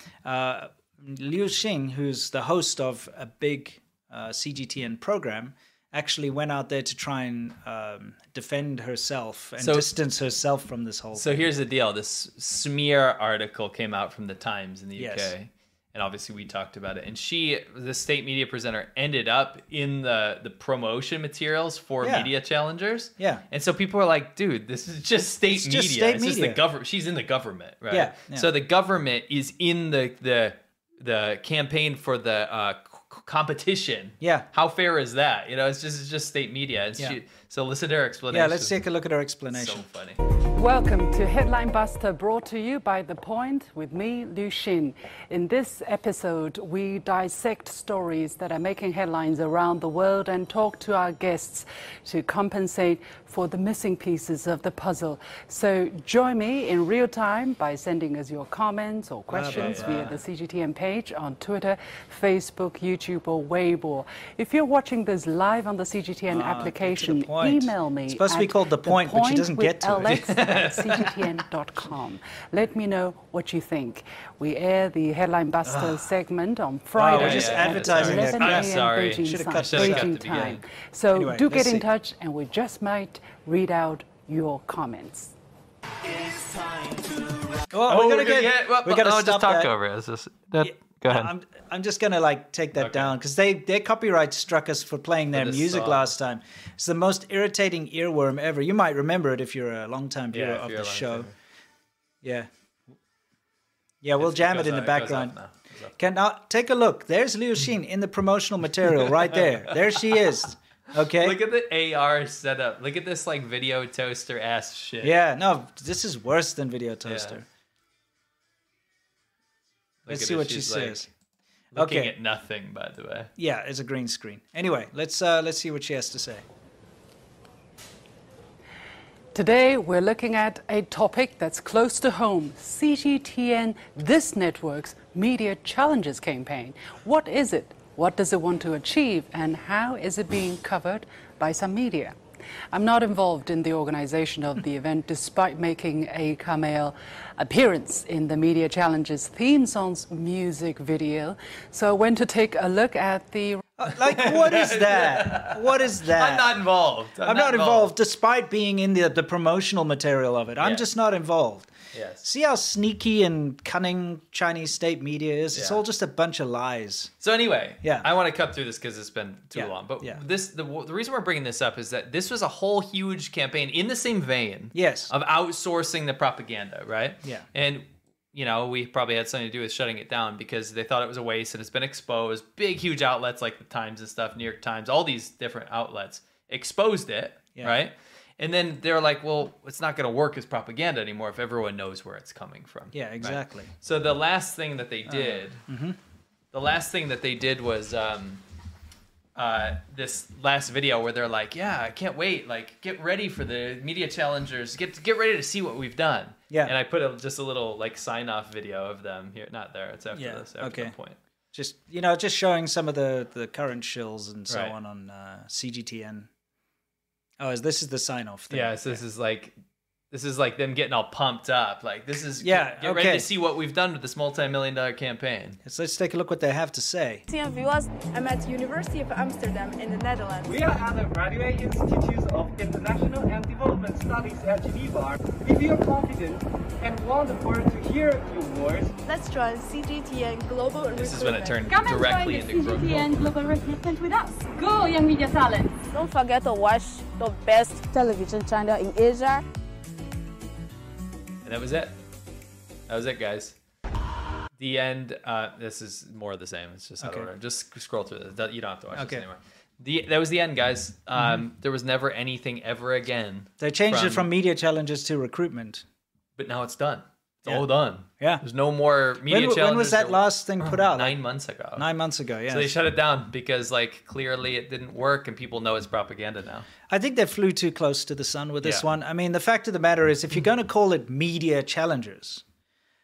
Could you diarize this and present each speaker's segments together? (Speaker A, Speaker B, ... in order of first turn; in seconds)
Speaker A: 0.2-11.3, 14.9-15.3, 22.0-22.3, 23.2-23.4, 25.5-26.6, 27.9-28.5, 34.2-34.5, 38.3-39.9, 59.3-60.1, 66.3-70.3, 75.6-76.1, 76.9-80.1, 81.1-81.8, 87.7-89.7, 90.6-101.3, 102.2-102.5, 104.0-105.3, 106.0-111.4, 115.0-117.5, 120.1-121.1, 121.7-122.1, 123.4-126.4, 153.8-156.6, 157.2-161.7, 162.2-167.1, 167.8-168.1, 169.5-170.2, 174.7-175.1, 192.9-193.7, 195.1-196.0, 210.1-210.9, 211.5-216.3, 217.4-219.0, 222.4-223.3, 225.6-227.2, 257.0-257.3, 258.9-259.2, 261.1-261.4, 263.6-265.8, 268.2-268.4, 269.2-271.2, 271.8-272.8, 276.9-282.4
Speaker B: 9.6-9.9, 11.1-38.8, 39.5-40.2, 59.4-60.2, 70.0-71.2, 77.1-80.6, 87.8-91.3, 92.8-93.1, 95.3-96.1, 100.3-101.3, 104.2-106.0, 109.0-110.2, 111.1-115.1, 117.1-117.4, 120.0-121.1, 121.7-123.3, 154.0-157.9, 161.9-162.2, 165.5-165.8, 167.2-195.6, 196.5-198.4, 199.3-211.2, 214.5-214.7, 218.5-219.5, 220.1-225.6, 240.9-243.2, 251.4-251.9, 252.9-253.6, 254.6-264.3, 266.4-271.8, 272.5-276.7
Speaker C: 40.5-85.3, 129.3-142.2, 142.7-153.6
Speaker D: 227.3-230.5, 239.1-241.7, 245.9-249.4
Speaker E: 230.4-238.9